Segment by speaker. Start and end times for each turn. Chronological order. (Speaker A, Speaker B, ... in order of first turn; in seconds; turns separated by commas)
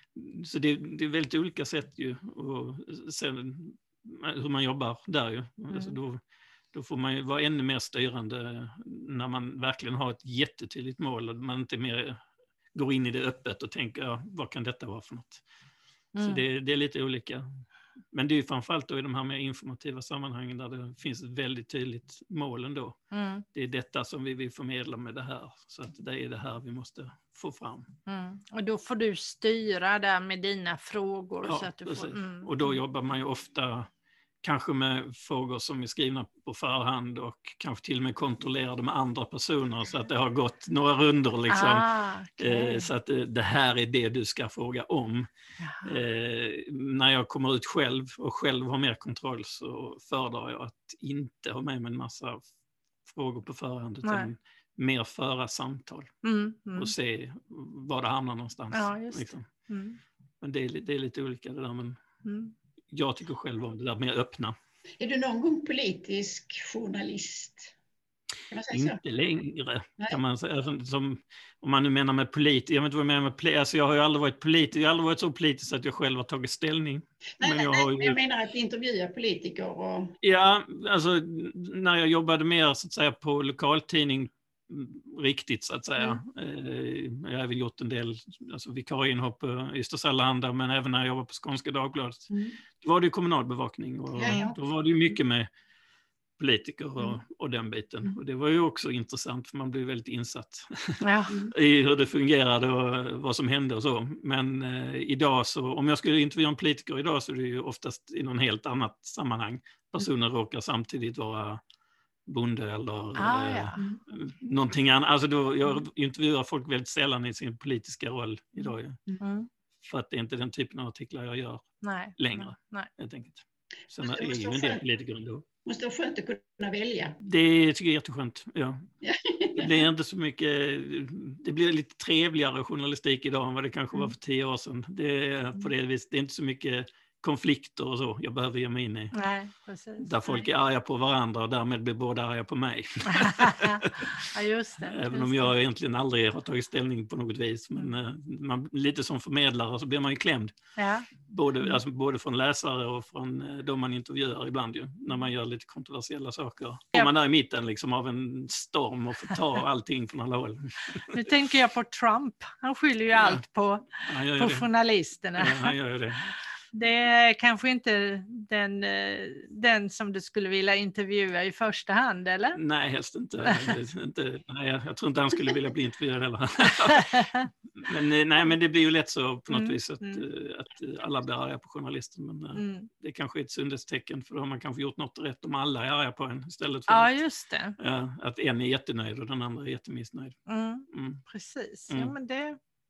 Speaker A: 0.1-6.2, Speaker A: 6.7-12.2, Speaker A: 12.7-15.4, Speaker B: 16.1-16.4, Speaker A: 16.2-17.5, Speaker A: 18.1-23.0, Speaker B: 23.1-23.4, Speaker A: 23.5-27.9, Speaker B: 28.1-32.7, Speaker A: 31.4-33.9, Speaker A: 34.4-41.9, Speaker B: 41.5-42.9, Speaker A: 42.4-45.3, Speaker B: 45.6-46.0, Speaker A: 45.8-52.5, Speaker A: 53.0-56.1, Speaker B: 54.0-54.3, Speaker B: 56.2-56.9, Speaker A: 56.8-59.5, Speaker B: 58.7-60.0, Speaker A: 60.4-62.0, Speaker B: 62.2-62.5, Speaker A: 62.9-64.6, Speaker C: 65.0-67.7, Speaker C: 68.5-69.0, Speaker A: 68.7-78.2, Speaker C: 77.4-80.2, Speaker A: 80.2-92.3, Speaker C: 92.3-92.6, Speaker A: 92.8-95.5, Speaker C: 94.2-94.5, Speaker B: 94.3-94.6, Speaker A: 96.4-111.6, Speaker B: 101.0-101.3, Speaker A: 112.3-119.0, Speaker B: 113.2-113.8, Speaker B: 119.2-119.5, Speaker A: 119.8-121.7, Speaker B: 121.8-122.9, Speaker A: 122.2-125.5, Speaker C: 124.0-124.8, Speaker C: 125.7-127.2, Speaker A: 127.2-128.9, Speaker C: 129.0-129.8, Speaker A: 129.6-139.1, Speaker B: 139.1-140.5, Speaker A: 140.0-144.3, Speaker B: 143.1-145.5, Speaker A: 144.8-150.5, Speaker B: 150.8-151.1, Speaker A: 151.2-161.3, Speaker B: 161.1-165.8, Speaker A: 163.1-163.4, Speaker A: 164.0-164.7, Speaker A: 165.4-166.3, Speaker B: 166.7-172.6, Speaker A: 172.6-187.2, Speaker B: 173.4-173.8, Speaker B: 176.9-177.5, Speaker B: 179.5-180.2, Speaker B: 182.6-182.9, Speaker B: 186.9-187.8, Speaker A: 187.8-190.4, Speaker B: 190.5-192.6, Speaker A: 190.9-191.2, Speaker A: 191.9-192.2